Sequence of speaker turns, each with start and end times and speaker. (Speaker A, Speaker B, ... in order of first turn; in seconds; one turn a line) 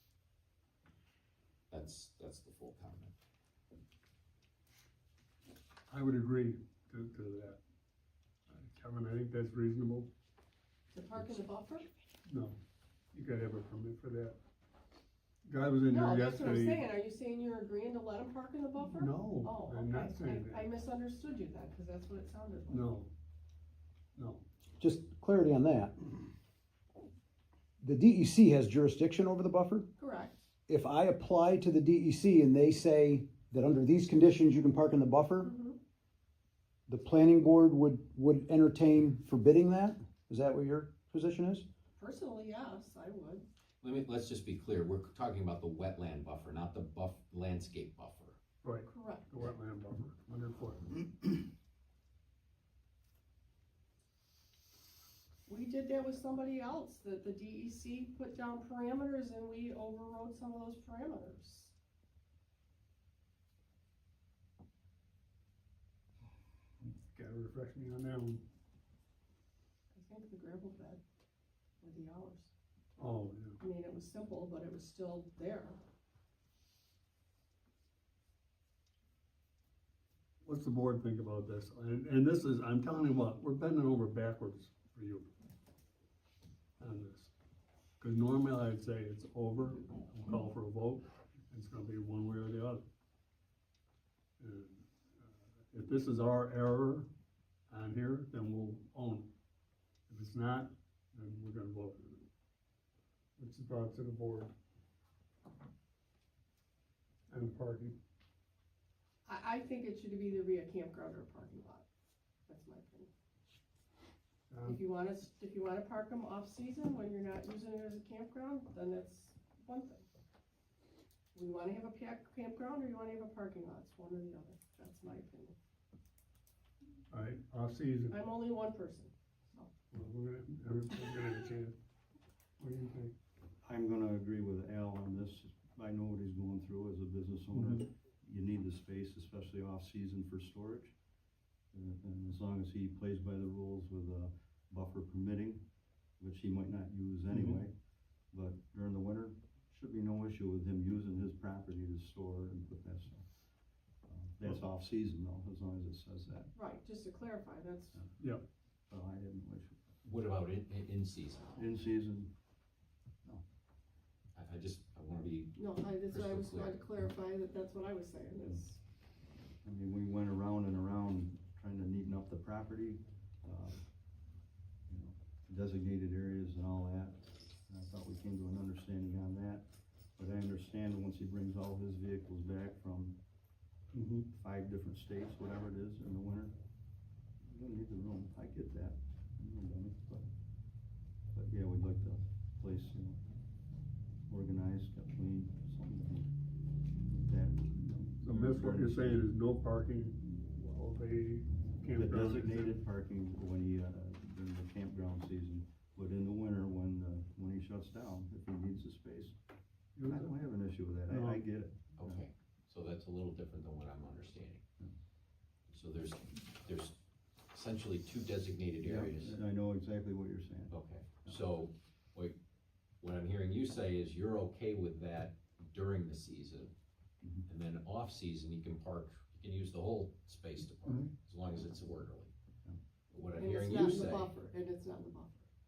Speaker A: 1.7-3.1
Speaker B: 5.9-7.6
Speaker B: 8.5-10.1
Speaker C: 10.9-11.9
Speaker B: 12.2-12.6
Speaker B: 13.1-14.4
Speaker B: 15.4-16.8
Speaker C: 15.9-22.9
Speaker B: 18.8-20.7
Speaker B: 22.7-23.1
Speaker B: 24.1-24.4
Speaker D: 24.8-25.9
Speaker D: 27.8-29.9
Speaker C: 30.0-30.4
Speaker D: 30.7-35.5
Speaker C: 35.4-35.8
Speaker D: 36.9-41.7
Speaker C: 42.0-43.5
Speaker A: 43.8-48.4
Speaker B: 48.6-51.0
Speaker C: 48.9-49.3
Speaker C: 55.5-61.7
Speaker B: 66.8-68.4
Speaker C: 69.9-71.0
Speaker C: 71.8-72.5
Speaker B: 73.0-73.6
Speaker C: 73.6-75.8
Speaker B: 80.4-85.3
Speaker B: 86.8-87.3
Speaker B: 88.0-92.8
Speaker B: 94.4-97.1
Speaker B: 97.7-99.3
Speaker B: 100.1-102.2
Speaker B: 103.4-104.5
Speaker B: 107.3-107.9
Speaker C: 109.2-111.8
Speaker C: 112.5-113.1
Speaker B: 114.5-114.8
Speaker C: 114.6-120.0
Speaker C: 121.3-125.5
Speaker B: 127.1-128.2
Speaker C: 128.1-129.7
Speaker B: 129.9-131.8
Speaker B: 132.6-133.2
Speaker E: 133.6-140.9
Speaker B: 137.5-137.8
Speaker E: 141.7-145.7
Speaker E: 146.2-147.7
Speaker B: 147.3-147.6
Speaker E: 148.3-153.2
Speaker E: 154.1-156.5
Speaker C: 156.5-158.0
Speaker E: 158.9-159.8
Speaker A: 160.0-161.6
Speaker E: 161.6-162.3
Speaker A: 164.3-166.8
Speaker C: 165.6-168.8
Speaker E: 169.6-173.8
Speaker E: 174.9-179.7
Speaker E: 180.2-183.2
Speaker B: 183.9-184.3
Speaker E: 184.3-186.5
Speaker E: 187.4-190.3
Speaker E: 191.3-193.2
Speaker E: 194.3-196.3
Speaker E: 197.1-199.3
Speaker B: 198.2-202.8
Speaker E: 201.9-209.3
Speaker B: 210.0-210.4
Speaker E: 210.0-212.2
Speaker B: 211.1-211.4
Speaker A: 212.0-214.6
Speaker A: 215.7-217.0
Speaker A: 217.5-219.3
Speaker E: 218.8-220.7
Speaker A: 220.7-222.3
Speaker A: 223.0-226.7
Speaker A: 227.4-232.3
Speaker E: 230.8-231.1
Speaker A: 233.1-234.3
Speaker C: 233.3-235.5